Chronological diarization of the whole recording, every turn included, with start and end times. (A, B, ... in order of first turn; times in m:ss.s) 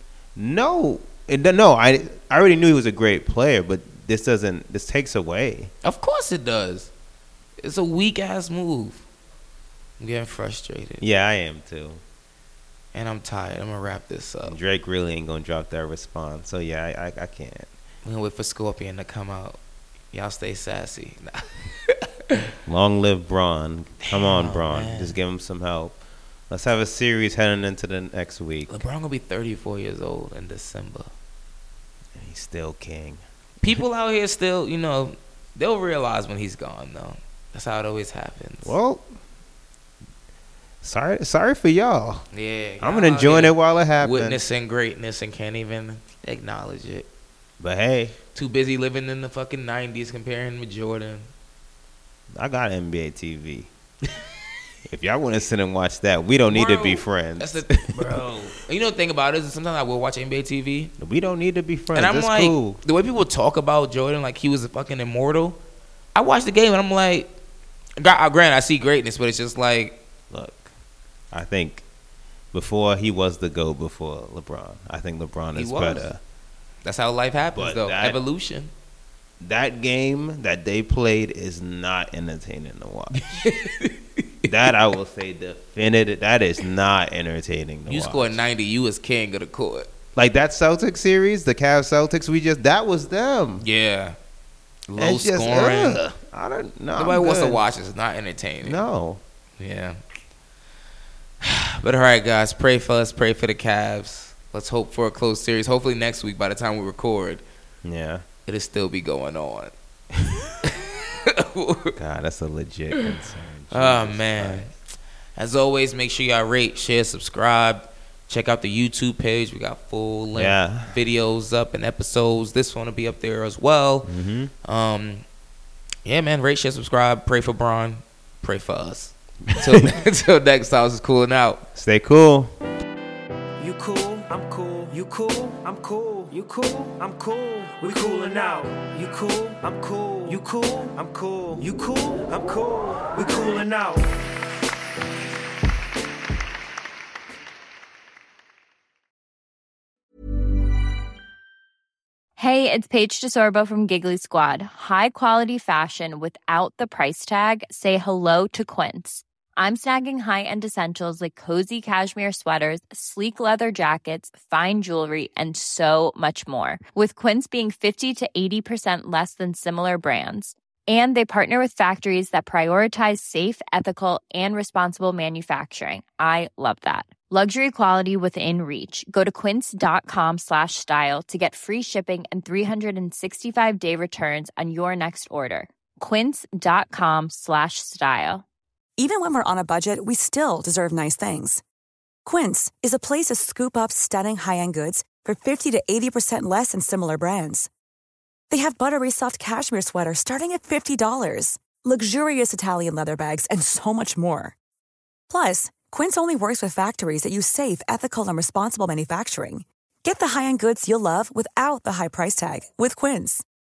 0:00.4-0:05.7 A
0:05.8-0:06.9 B
0:07.6-0:09.0 B
0:10.0-0:11.0 B
0:11.0-0:12.0 A
0:12.9-0:14.6 B
0:14.5-0:17.7 A
0:18.0-0:19.6 B
0:20.1-0:22.0 B
0:22.7-0:26.0 A
0:24.0-0:25.2 B
0:26.5-0:28.7 A
0:28.7-0:31.1 B
0:32.2-0:33.8 A
0:33.6-0:38.8 B
0:38.6-0:39.2 A
0:40.8-0:42.2 A
0:42.3-0:47.1 B
0:42.8-0:44.4 A
0:47.6-0:48.2 A
0:48.3-0:51.3 B
0:52.3-0:53.7 A
0:54.9-0:58.2 A
0:56.5-1:00.9 B
1:01.0-1:02.8 A
1:01.9-1:05.6 B
1:06.2-1:07.3 B
1:08.0-1:10.0 B
1:10.3-1:10.7 A
1:11.3-1:11.8 A
1:12.5-1:16.2 A
1:15.6-1:16.1 B
1:16.8-1:18.7 B
1:17.6-1:18.2 A
1:19.4-1:23.5 A
1:23.1-1:24.5 B
1:24.5-1:28.4 A
1:27.9-1:29.9 B
1:30.2-1:33.7 A
1:33.6-1:34.2 B
1:34.9-1:36.0 B
1:35.0-1:37.6 A
1:37.0-1:38.8 B
1:38.6-1:39.2 A
1:39.6-1:40.0 B
1:41.4-1:47.4 B
1:47.8-1:48.2 A
1:48.5-1:49.7 B
1:50.6-1:51.9 B
1:52.0-1:54.7 A
1:53.7-1:54.7 B
1:55.4-2:04.1 B
2:00.3-2:01.0 A
2:04.0-2:04.5 A
2:04.6-2:05.2 B
2:06.0-2:11.6 B
2:09.5-2:09.9 A
2:11.8-2:12.5 A
2:13.6-2:24.0 C
2:32.4-3:08.4 D
3:09.0-3:11.6 E
3:12.2-3:17.7 E
3:18.5-3:24.6 E
3:25.3-3:33.4 E